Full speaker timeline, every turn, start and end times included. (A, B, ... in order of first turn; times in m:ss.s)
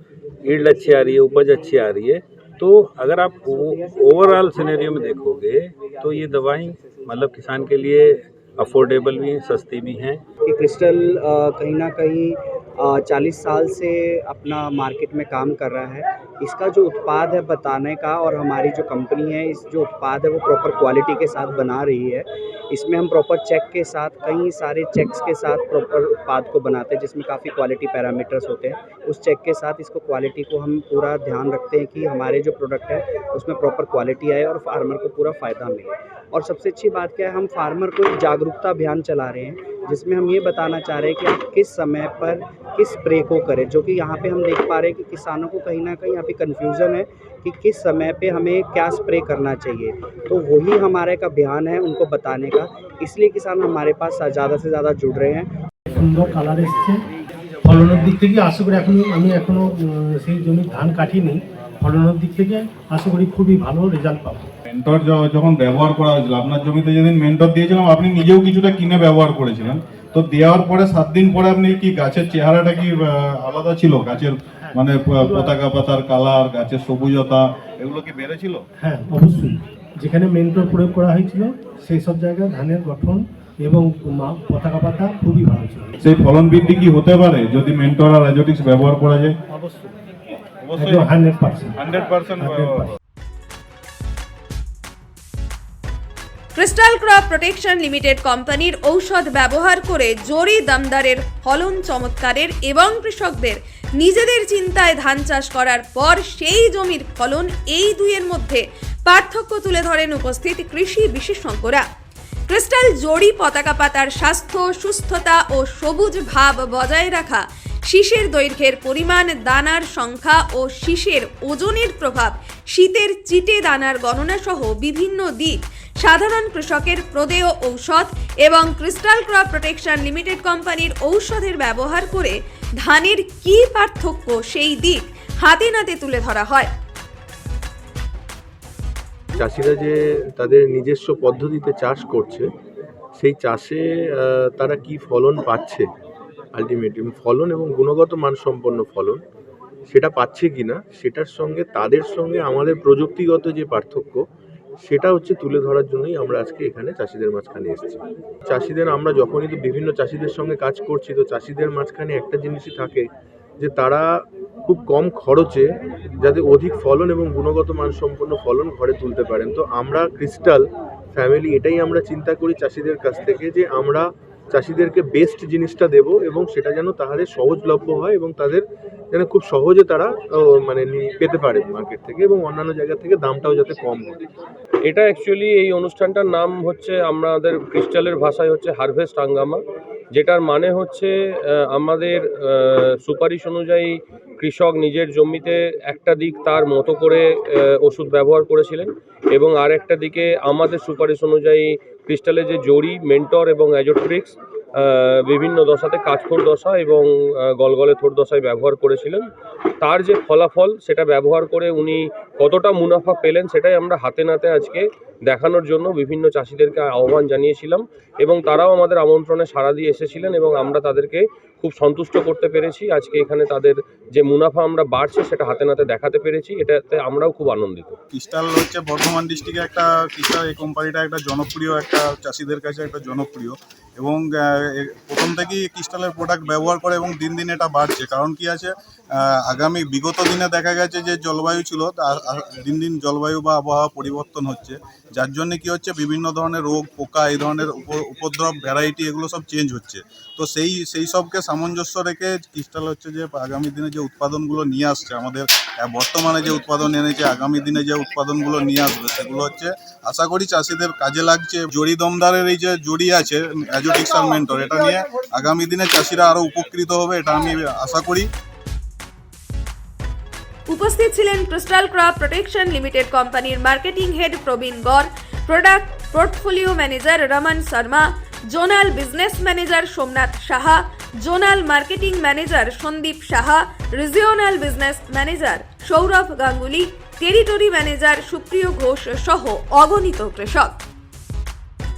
0:00.4-0:10.2 A
0:10.4-0:55.5 B
0:55.9-0:57.0 C
0:57.6-1:04.5 C
1:04.7-1:18.6 D
1:14.6-1:15.6 C
1:18.8-1:26.0 C
1:26.0-1:29.4 D
1:29.5-1:29.9 C
1:30.6-1:31.1 D
1:30.8-1:31.8 C
1:31.8-1:32.9 D
1:32.4-1:32.9 C
1:36.5-1:51.8 E
1:52.5-2:16.7 E
2:19.3-2:22.4 F
2:23.2-2:25.8 F
2:26.5-2:29.2 F
2:29.9-2:34.2 F
2:34.8-2:43.1 F
2:43.6-2:44.1 F
2:44.6-2:45.6 F
2:46.2-3:04.2 F
3:04.8-3:09.6 G
3:10.1-3:29.2 G
3:29.8-3:48.0 G
3:48.1-4:28.3 D
4:30.7-4:50.8 E